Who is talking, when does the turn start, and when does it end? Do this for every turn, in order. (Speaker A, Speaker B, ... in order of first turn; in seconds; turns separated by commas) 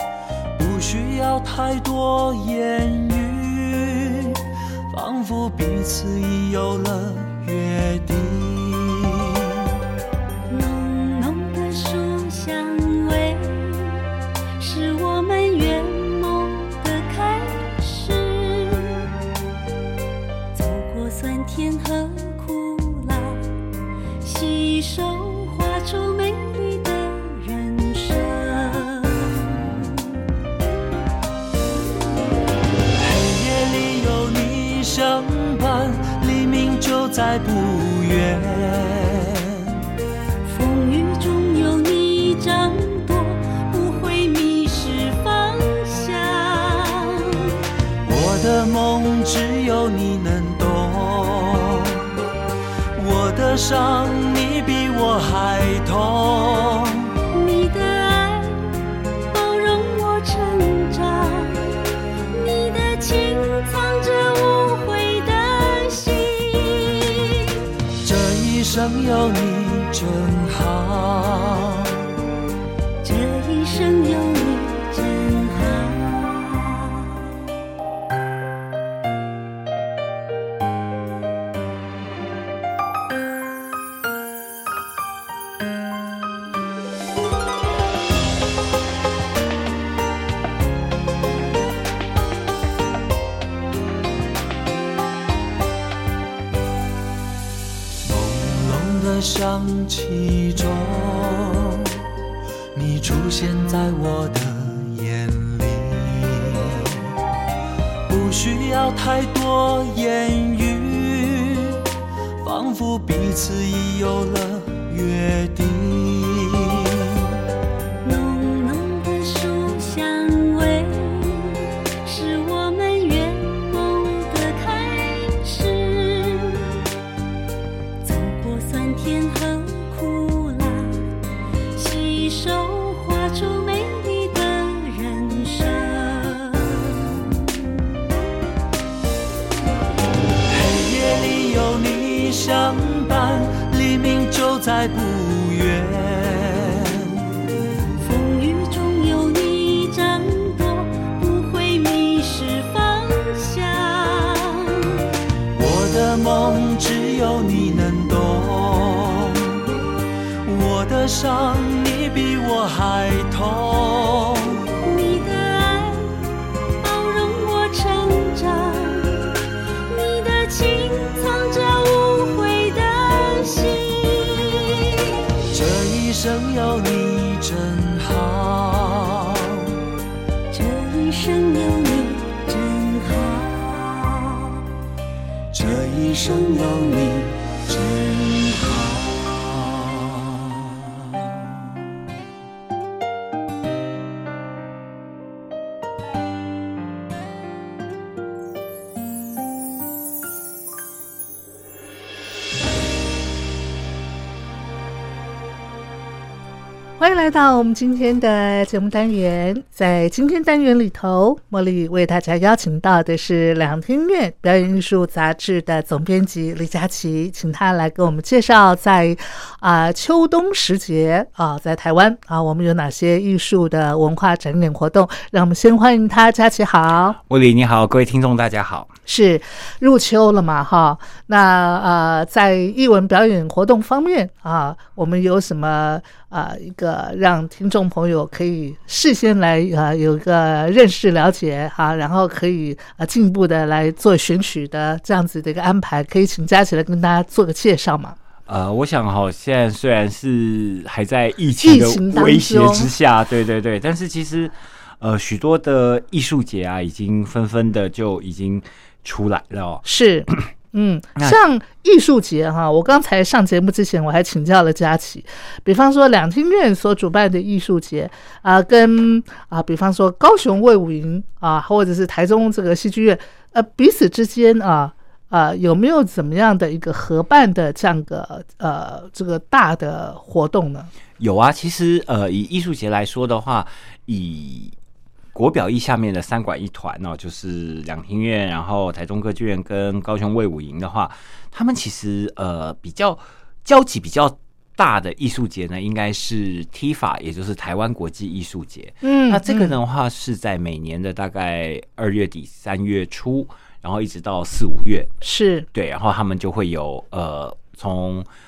Speaker A: 0.5-9.7, Speaker B: 10.5-14.0, Speaker B: 14.6-19.0, Speaker B: 20.5-23.5, Speaker B: 24.2-29.8, Speaker A: 33.0-39.8, Speaker B: 40.5-47.5, Speaker A: 48.0-52.1, Speaker A: 52.9-57.1, Speaker B: 57.2-58.7, Speaker B: 59.3-61.6, Speaker B: 62.3-67.5, Speaker A: 68.0-71.9, Speaker B: 73.0-77.1, Speaker A: 98.0-102.0, Speaker A: 102.7-107.0, Speaker A: 108.1-111.8, Speaker A: 112.4-117.3, Speaker B: 118.0-126.7, Speaker B: 128.0-131.0, Speaker B: 131.7-137.3, Speaker A: 140.5-147.2, Speaker B: 148.0-154.9, Speaker A: 155.5-159.7, Speaker A: 160.4-164.7, Speaker B: 164.7-166.2, Speaker B: 166.8-169.3, Speaker B: 169.9-174.8, Speaker A: 175.5-179.8, Speaker B: 180.5-184.6, Speaker A: 185.5-187.3, Speaker B: 185.7-188.7, Speaker A: 187.9-191.3, Speaker C: 207.0-227.2, Speaker D: 227.3-228.9, Speaker C: 229.1-248.2, Speaker D: 248.5-259.8, Speaker C: 251.6-252.9, Speaker C: 259.8-280.9, Speaker D: 281.2-284.7, Speaker D: 285.3-305.1, Speaker C: 299.0-299.7, Speaker C: 305.2-305.7, Speaker D: 305.7-308.3